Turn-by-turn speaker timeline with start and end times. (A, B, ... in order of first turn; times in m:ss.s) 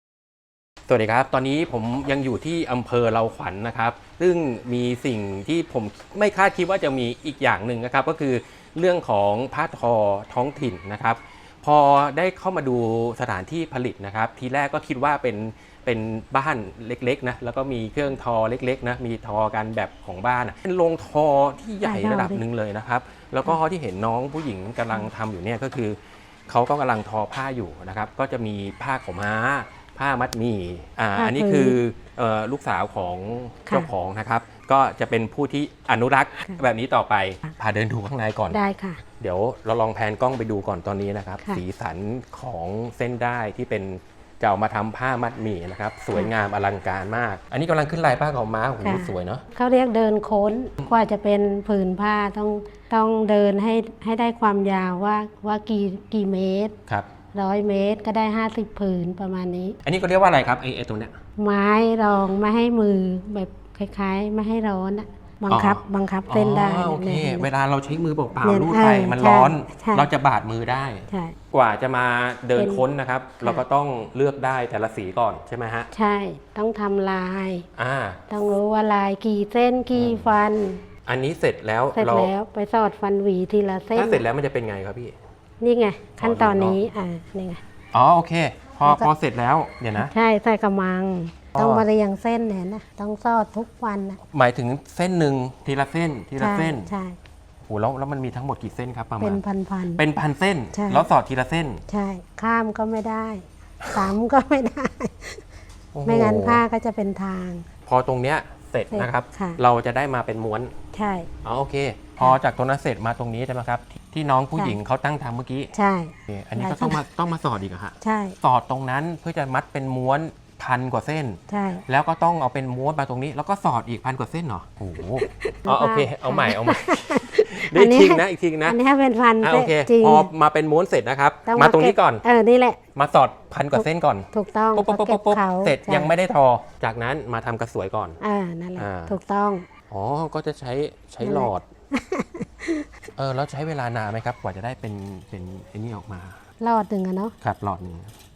0:00.9-0:38.6 A
0:21.8-0:22.4 B
0:31.2-0:31.8 B
0:38.5-0:39.0 B
0:39.2-0:49.4 A
0:48.8-0:56.8 B
0:57.3-0:59.8 B
0:59.8-1:01.2 A
1:01.4-1:07.5 B
1:05.5-1:15.9 A
1:08.4-1:10.1 B
1:11.1-1:11.4 B
1:12.5-1:12.8 B
1:15.9-1:17.7 B
1:17.8-1:18.2 A
1:18.3-1:20.8 B
1:19.9-1:20.3 A
1:21.0-1:22.3 A
1:21.9-1:24.2 B
1:23.9-1:25.1 A
1:25.6-1:27.6 B
1:26.2-1:26.8 A
1:27.9-1:30.1 A
1:28.8-1:29.1 B
1:29.9-1:34.2 B
1:31.5-1:31.8 A
1:34.3-1:36.9 A
1:36.4-1:37.2 B
1:37.6-1:39.4 A
1:39.2-1:40.0 B
1:40.0-1:41.8 A
1:40.7-1:41.1 B
1:41.9-1:45.4 B
1:45.9-1:46.6 A
1:46.0-1:47.6 B
1:47.8-1:50.7 A
1:48.9-1:49.6 B
1:50.9-1:51.3 B
1:51.4-1:55.7 A
1:55.7-1:57.0 B
1:56.3-2:08.8 A
1:58.0-1:58.4 B
2:01.5-2:01.8 B
2:05.2-2:10.3 B
2:09.4-2:12.2 A
2:11.4-2:12.8 B
2:12.9-2:18.2 A
2:13.7-2:16.1 B
2:18.2-2:19.7 B
2:18.8-2:19.1 A
2:19.9-2:21.6 A
2:21.2-2:22.9 B
2:23.2-2:26.4 A
2:26.6-2:27.3 B
2:27.4-2:28.1 A